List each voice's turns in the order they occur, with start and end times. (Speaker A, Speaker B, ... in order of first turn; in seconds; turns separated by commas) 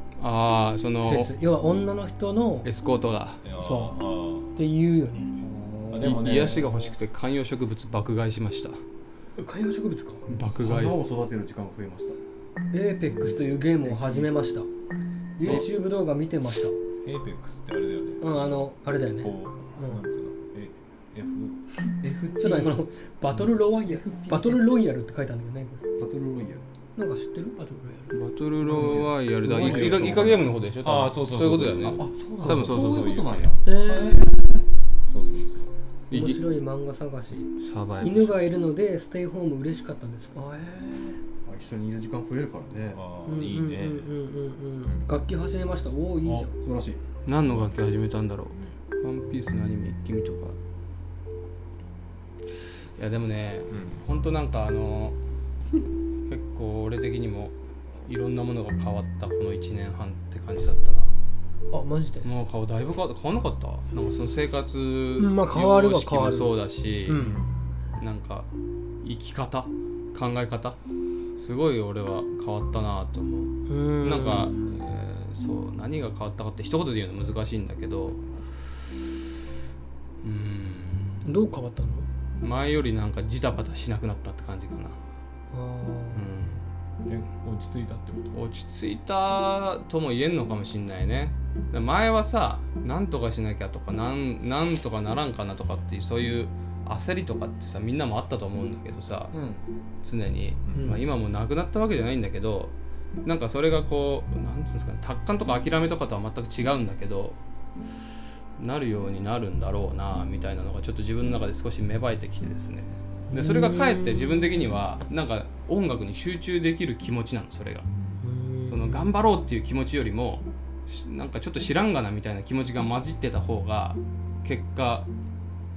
Speaker A: 0.2-1.3, Speaker B: 1.0-2.7, Speaker A: 2.6-3.4, Speaker C: 3.4-4.5, Speaker B: 3.6-4.0, Speaker B: 4.5-5.3, Speaker D: 5.4-6.9, Speaker C: 5.9-6.5, Speaker A: 6.0-8.8, Speaker B: 9.4-10.2, Speaker A: 10.3-11.0, Speaker D: 10.6-12.2, Speaker B: 12.7-14.7, Speaker D: 13.2-14.3, Speaker B: 15.4-16.8, Speaker C: 17.0-18.7, Speaker B: 18.2-20.0, Speaker C: 19.2-21.7, Speaker D: 22.0-22.8, Speaker B: 22.4-25.9, Speaker D: 23.8-24.8, Speaker D: 26.0-26.6, Speaker B: 26.9-28.1, Speaker A: 28.1-33.2, Speaker D: 28.6-30.5, Speaker C: 28.7-33.5, Speaker D: 31.9-34.6, Speaker B: 33.6-34.2, Speaker C: 35.0-35.7, Speaker A: 36.1-36.4, Speaker B: 36.1-41.2, Speaker A: 37.6-38.3, Speaker D: 41.5-43.0, Speaker C: 42.9-44.1, Speaker B: 43.2-46.5, Speaker C: 44.8-45.1, Speaker D: 46.6-47.0, Speaker A: 47.2-50.6, Speaker C: 47.4-47.9, Speaker A: 53.0-55.2, Speaker C: 53.7-54.0, Speaker A: 56.2-57.5, Speaker A: 58.0-61.1, Speaker B: 61.7-62.3, Speaker A: 62.2-67.3, Speaker B: 65.2-67.5, Speaker A: 68.0-68.5, Speaker A: 69.0-70.8, Speaker A: 71.4-78.2, Speaker B: 73.7-74.5, Speaker A: 80.2-81.2, Speaker B: 81.2-82.0, Speaker A: 82.4-85.0, Speaker B: 85.5-86.3, Speaker A: 86.1-86.6, Speaker C: 87.0-88.4, Speaker A: 88.3-99.3, Speaker D: 99.3-99.6, Speaker A: 100.0-107.4, Speaker C: 100.7-101.0, Speaker B: 100.8-101.0, Speaker A: 108.6-117.9, Speaker B: 113.3-114.6, Speaker B: 118.2-119.1, Speaker A: 118.7-125.1